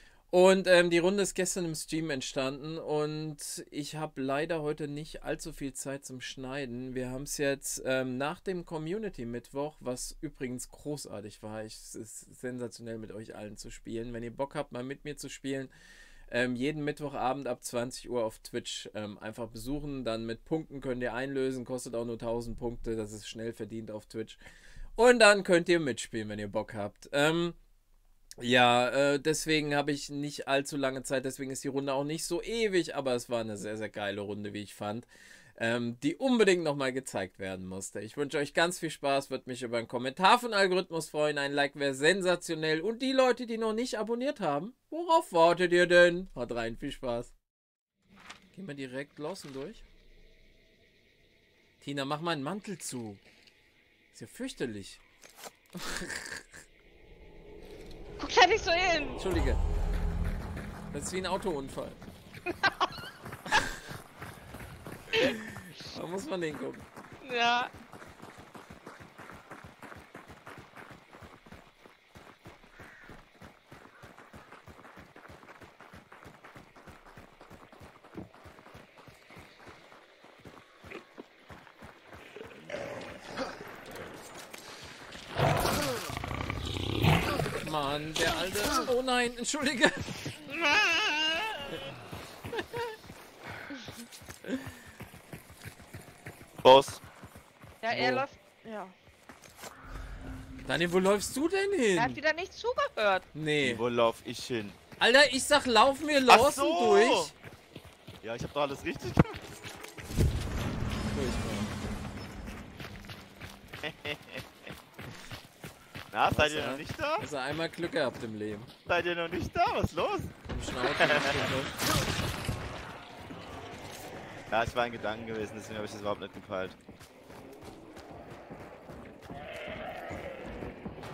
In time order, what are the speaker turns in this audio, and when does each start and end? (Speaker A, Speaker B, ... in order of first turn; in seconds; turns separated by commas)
Speaker A: 0.3-15.7, Speaker A: 16.3-24.4, Speaker A: 24.9-27.6, Speaker A: 28.4-47.3, Speaker A: 48.5-49.8, Speaker A: 51.8-53.2, Speaker A: 54.1-55.0, Speaker A: 55.8-56.5, Speaker B: 58.2-59.2, Speaker A: 59.2-59.6, Speaker A: 60.9-62.0, Speaker B: 62.5-62.9, Speaker A: 63.5-63.8, Speaker A: 65.1-66.9, Speaker B: 67.2-67.7, Speaker A: 87.6-90.1, Speaker B: 90.6-91.5, Speaker A: 92.6-92.8, Speaker A: 94.5-94.7, Speaker C: 96.6-97.0, Speaker B: 97.8-98.9, Speaker A: 97.9-98.2, Speaker A: 100.6-102.2, Speaker B: 102.0-103.2, Speaker A: 103.3-103.8, Speaker C: 103.6-104.8, Speaker A: 105.0-107.3, Speaker C: 106.3-107.3, Speaker C: 108.2-109.4, Speaker A: 111.1-111.7, Speaker C: 113.8-114.4, Speaker C: 116.1-117.2, Speaker A: 116.3-118.7, Speaker C: 118.8-120.3, Speaker A: 120.5-121.8, Speaker C: 121.0-121.4, Speaker C: 124.5-126.8